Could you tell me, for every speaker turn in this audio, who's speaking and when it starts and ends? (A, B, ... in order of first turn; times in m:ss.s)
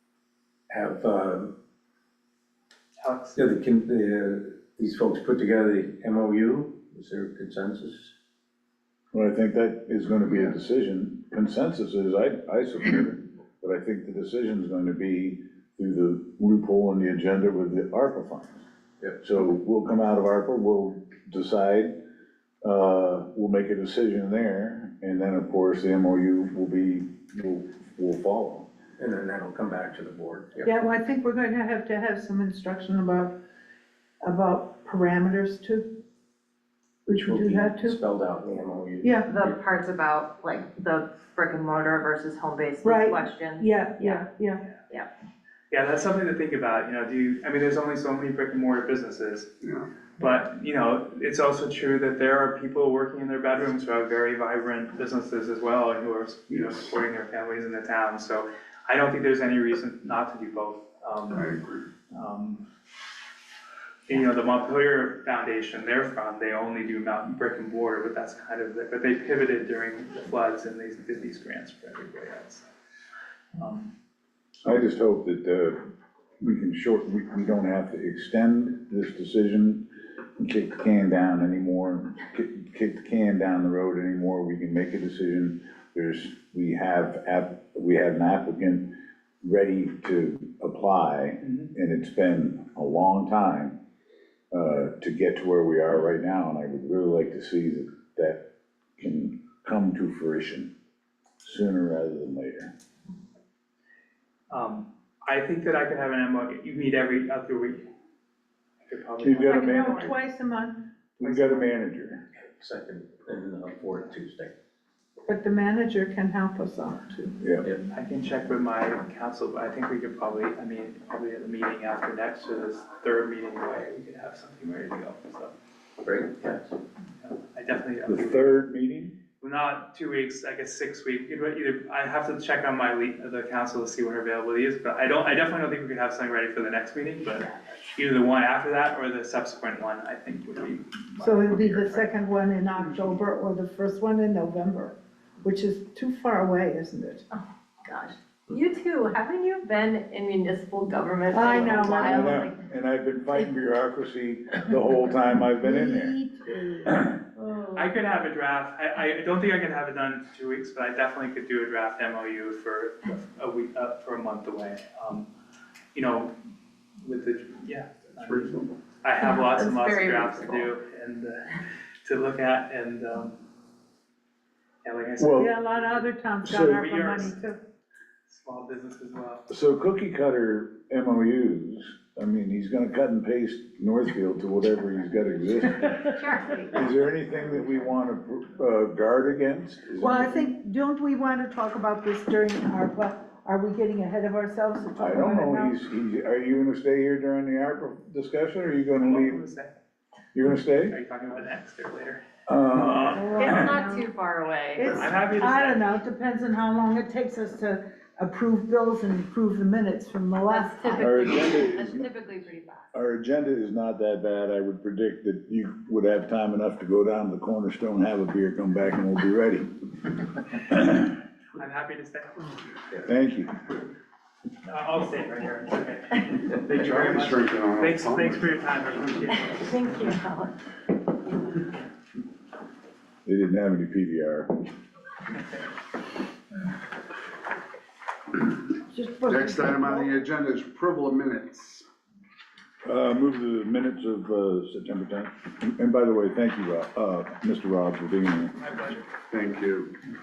0:00.7-0:01.5 A
0:03.0-0:03.5 B
0:03.4-0:08.1 A
0:09.1-0:18.6 C
0:19.2-0:21.9 C
0:22.6-0:28.7 C
0:29.0-0:30.7 A
0:30.6-0:33.3 D
0:34.2-0:35.9 D
0:37.1-0:38.0 D
0:37.1-0:39.6 A
0:39.0-0:39.3 D
0:39.2-0:44.3 E
0:42.8-0:44.6 D
0:45.7-0:49.5 B
0:49.6-0:49.9 F
0:50.2-1:01.5 B
1:01.3-1:01.8 F
1:02.1-1:02.6 B
1:04.1-1:12.6 B
1:13.6-1:13.9 B
1:14.6-1:15.8 C
1:16.4-1:33.8 C
1:31.4-1:31.7 B
1:34.5-1:38.4 C
1:39.0-1:40.7 C
1:41.4-1:42.7 C
1:44.5-1:47.9 B
1:48.8-1:50.0 B
1:49.2-1:50.0 C
1:49.5-1:50.1 E
1:49.5-1:50.8 D
1:51.2-1:52.2 C
1:51.2-1:51.7 B
1:52.6-1:54.5 A
1:55.3-1:57.4 D
1:57.4-1:57.6 C
1:57.9-2:05.5 B
2:06.0-2:06.7 A
2:07.2-2:08.6 B
2:08.1-2:09.2 C
2:09.4-2:22.0 B
2:21.2-2:27.2 D
2:27.3-2:32.6 E
2:31.3-2:32.4 D
2:31.7-2:36.2 C
2:35.6-2:37.1 D
2:36.9-2:37.2 C
2:37.4-2:37.9 E
2:37.7-2:45.3 B
2:45.9-2:46.3 B
2:47.0-2:53.4 B
2:48.2-2:48.7 F
2:49.2-2:50.6 E
2:54.8-2:57.4 B
2:55.2-2:55.5 C
2:55.4-2:57.6 D
2:58.3-2:59.4 B
2:59.5-3:06.2 C
3:05.8-3:06.8 E
3:06.7-3:10.5 C
3:10.0-3:15.7 D
3:15.0-3:19.4 C
3:19.0-3:19.7 B
3:20.3-3:21.0 C
3:20.9-3:22.2 B
3:22.5-3:23.6 C
3:22.7-3:23.7 B
3:23.1-3:24.1 D
3:23.3-3:25.1 E
3:24.7-3:31.1 D
3:24.8-3:25.9 B
3:30.4-3:32.8 E
3:31.0-3:32.1 C
3:32.9-3:40.0 C
3:40.7-3:41.1 C
3:41.6-3:42.5 B
3:43.0-3:43.5 C
3:44.6-3:49.7 B
3:46.7-3:48.6 F
3:49.5-3:50.5 E
3:53.2-3:54.5 C
3:58.9-4:00.1 D
3:59.3-4:01.8 F
4:02.8-4:08.6 C
4:08.6-4:09.1 B
4:09.3-4:09.9 F